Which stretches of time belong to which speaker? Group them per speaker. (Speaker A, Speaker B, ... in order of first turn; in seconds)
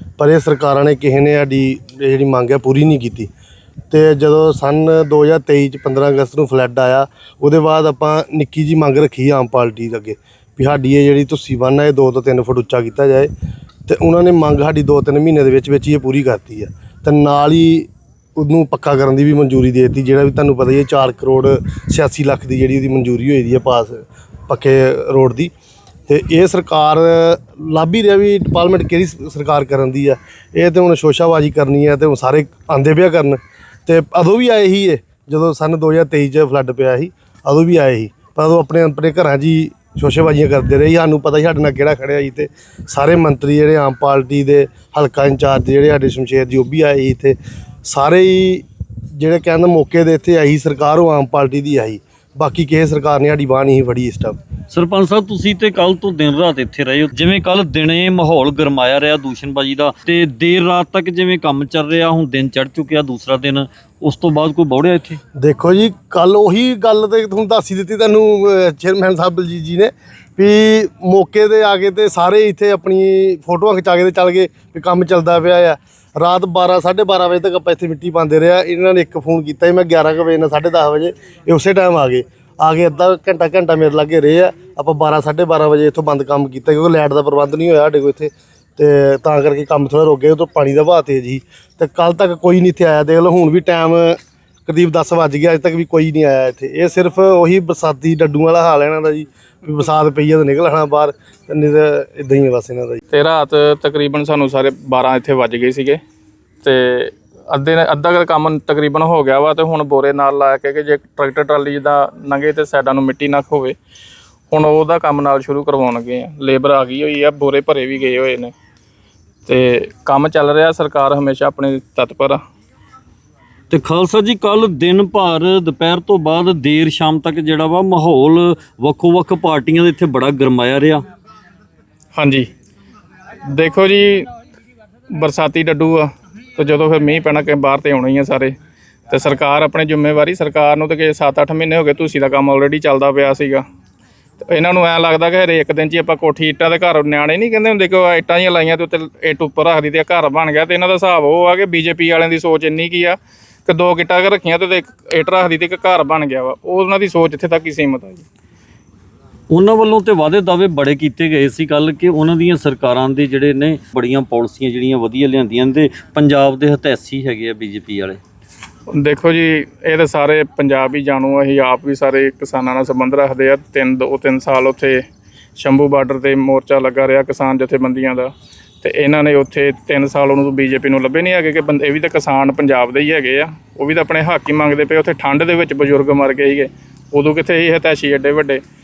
Speaker A: 0.2-3.3, 3.9-13.3, 13.9-25.5, 26.1-48.6, 49.2-54.4, 65.4-103.0
Speaker B: 54.7-65.2, 123.7-131.0, 159.5-168.2
Speaker C: 103.1-106.0, 106.6-113.8, 114.5-118.5, 119.5-122.4, 132.1-132.5, 133.4-134.3, 135.1-138.5, 139.1-143.6, 144.4-158.2, 168.9-175.0, 175.6-178.3, 178.8-188.6